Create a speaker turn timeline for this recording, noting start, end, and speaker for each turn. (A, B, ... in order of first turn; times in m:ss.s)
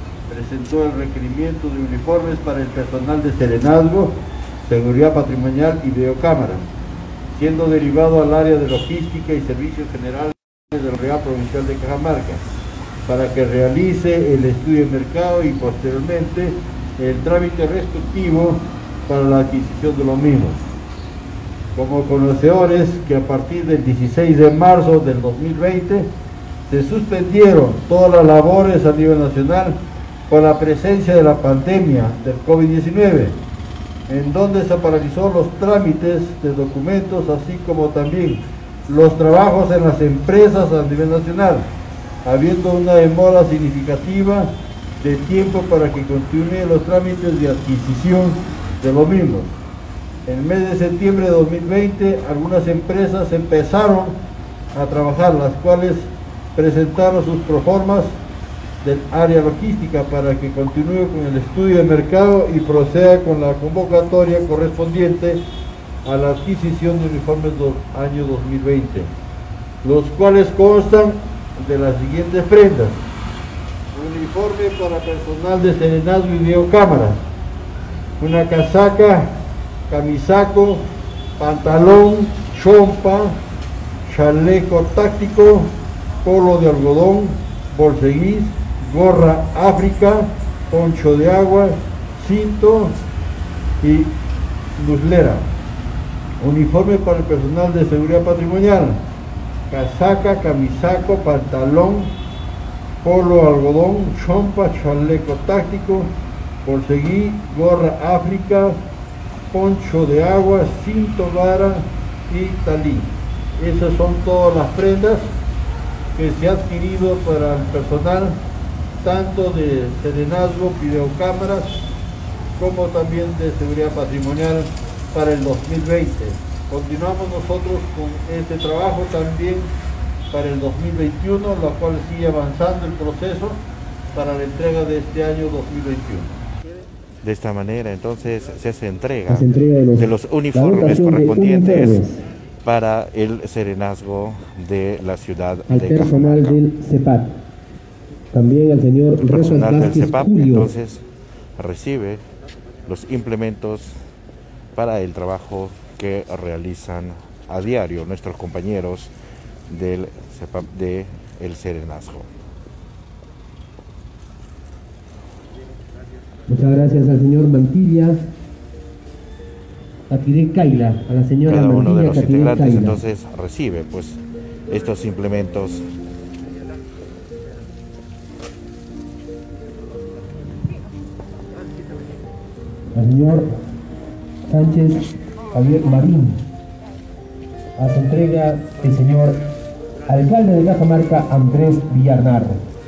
0:00.3-0:06.6 A
0:07.3-0:12.4 A
0:13.1-0:20.6 A
0:21.8-0:26.1 A
0:26.7-0:29.8 A
0:30.3-0:33.4 A
0:34.1-0:41.7 A
0:42.2-0:49.6 A
0:50.3-0:54.2 A
0:54.7-0:58.2 A
0:58.8-1:05.4 A
1:06.0-1:09.1 A
1:09.8-1:13.0 A
1:13.9-1:17.2 A
1:18.2-1:19.4 A
1:19.9-1:20.8 A
1:21.4-1:23.4 A
1:24.0-1:33.0 A
1:33.8-1:34.1 A
1:34.8-1:35.5 A
1:36.4-1:39.0 A
1:39.7-1:42.1 A
1:43.0-1:46.1 A
1:46.6-1:48.8 A
1:49.5-1:55.3 A
1:56.2-1:58.4 A
1:59.0-2:01.8 A
2:02.6-2:09.7 A
2:10.3-2:13.6 A
2:14.1-2:16.3 A
2:17.2-2:22.1 B
2:19.3-2:20.0 C
2:20.5-2:22.2 C
2:22.6-2:26.6 B
2:25.7-2:27.3 C
2:28.3-2:30.6 C
2:29.2-2:31.0 B
2:31.6-2:32.2 B
2:32.9-2:34.0 B
2:34.8-2:39.1 B
2:39.7-2:42.3 B
2:46.5-2:48.1 C
2:50.1-2:53.0 C
2:51.5-2:55.8 B
3:03.0-3:03.4 C
3:04.5-3:06.4 C
3:07.8-3:09.3 C
3:10.1-3:12.6 C